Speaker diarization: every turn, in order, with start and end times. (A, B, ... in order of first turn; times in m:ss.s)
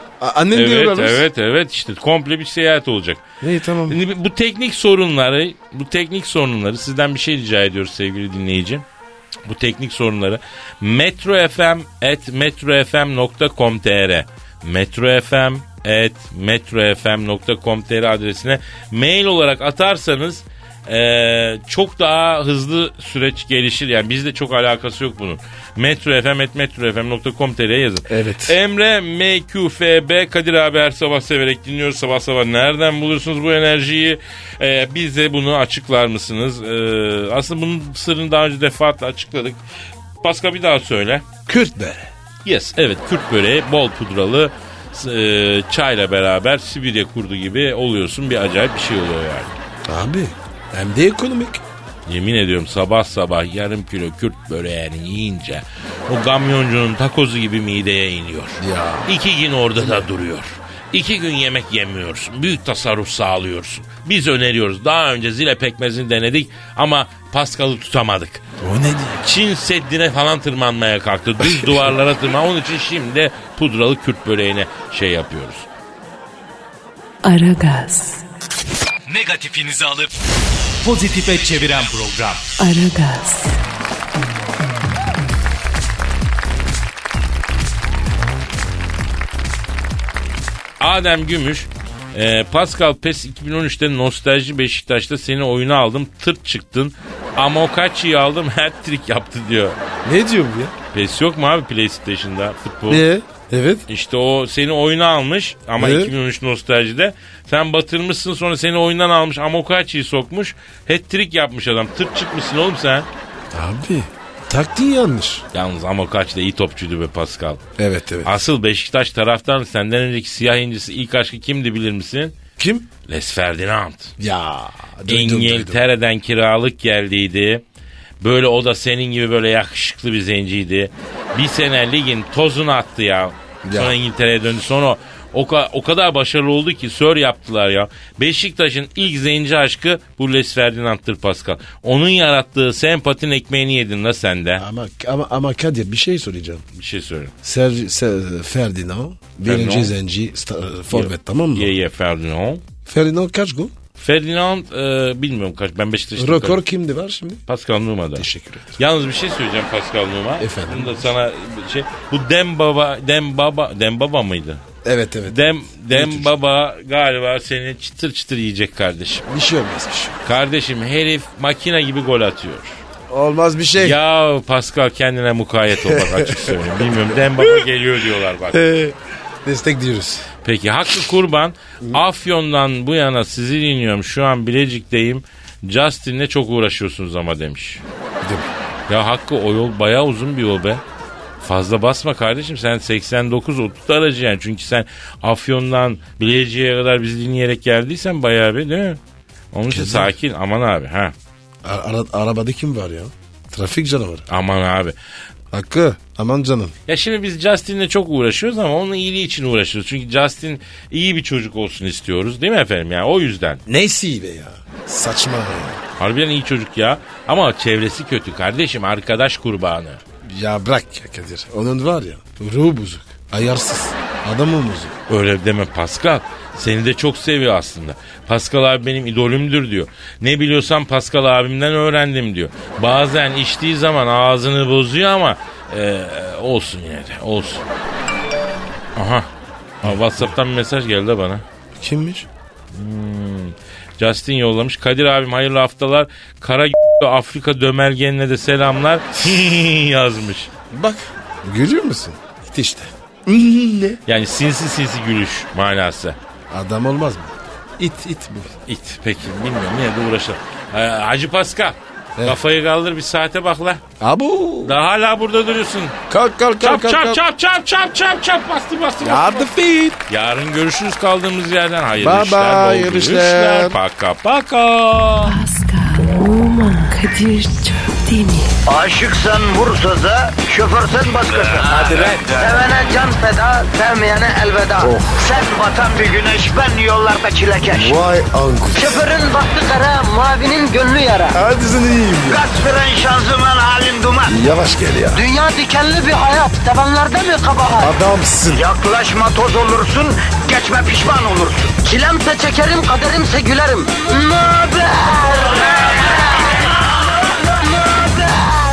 0:00.2-0:01.3 A
0:00.5-0:03.2 B
0:03.4-0:04.0 A
0:03.9-0:08.8 B
0:09.5-0:39.6 B
0:28.1-0:28.6 A
0:40.2-0:41.3 B
0:41.5-0:42.1 A
0:42.4-0:49.6 B
0:49.9-0:51.6 A
0:52.1-1:08.4 B
0:58.6-0:59.1 A
0:59.8-1:00.0 A
1:08.6-1:09.3 A
1:09.2-1:15.7 B
1:11.4-1:11.9 A
1:17.2-1:18.2 C
1:19.1-1:20.1 D
1:20.8-1:22.5 D
1:22.6-1:23.6 C
1:30.8-1:39.8 B
1:40.0-1:40.7 A
1:40.9-1:43.1 B
1:42.9-1:43.8 A
1:43.9-1:53.1 B
1:45.8-1:46.1 A
1:53.5-1:55.4 A
1:55.5-1:57.6 B
1:57.8-1:58.4 A
1:58.2-2:02.4 B
2:02.6-2:02.9 A
2:03.1-2:04.1 B
2:04.2-2:05.8 A
2:05.0-2:07.6 B
2:08.2-2:24.6 B
2:13.6-2:14.0 A
2:24.6-2:26.6 A
2:26.8-2:27.3 B
2:27.4-2:31.7 A
2:29.4-2:29.9 B
2:30.9-2:32.6 B
2:32.9-2:33.7 A
2:34.0-2:36.6 B
2:36.2-2:37.4 A
2:37.5-2:44.6 B
2:38.2-2:38.8 A
2:40.4-2:40.9 A
2:44.8-2:46.3 A
2:45.3-2:49.3 B
2:49.3-2:50.2 A
2:50.2-2:52.8 B
2:53.1-2:54.0 A
2:53.8-2:58.7 B
2:55.8-2:57.6 A
2:58.5-3:00.3 A
3:00.4-3:07.8 B
3:08.2-3:08.5 A
3:08.9-3:10.8 B
3:11.4-3:19.0 B
3:19.5-3:21.1 B
3:19.7-3:20.1 A
3:21.6-3:24.3 A
3:24.3-3:25.0 B
3:25.5-3:26.8 A
3:26.9-3:33.6 B
3:33.7-3:35.8 A
3:36.0-3:40.0 B
3:40.2-3:45.0 A
3:45.1-3:57.6 B
3:59.0-3:59.3 B
3:59.8-4:01.4 B
4:01.8-4:02.3 A
4:02.7-4:10.5 B
4:10.7-4:14.0 A
4:14.1-4:16.2 B
4:16.5-4:18.6 A
4:18.7-4:23.8 B
4:24.0-4:24.8 A
4:24.6-4:26.0 B
4:26.1-4:27.2 A
4:26.6-4:29.5 B
4:29.0-4:30.0 A
4:30.1-4:35.4 B
4:32.0-4:33.8 A
4:35.2-4:38.6 C
4:38.7-4:48.0 E
4:44.8-4:45.3 A
4:47.7-4:49.0 A
4:48.7-4:51.4 E
4:51.3-4:52.4 A
4:52.3-4:54.4 E
4:54.3-4:55.3 A
4:55.1-4:57.9 E
4:57.8-4:58.7 A
4:58.5-5:06.4 E
5:07.8-5:08.6 E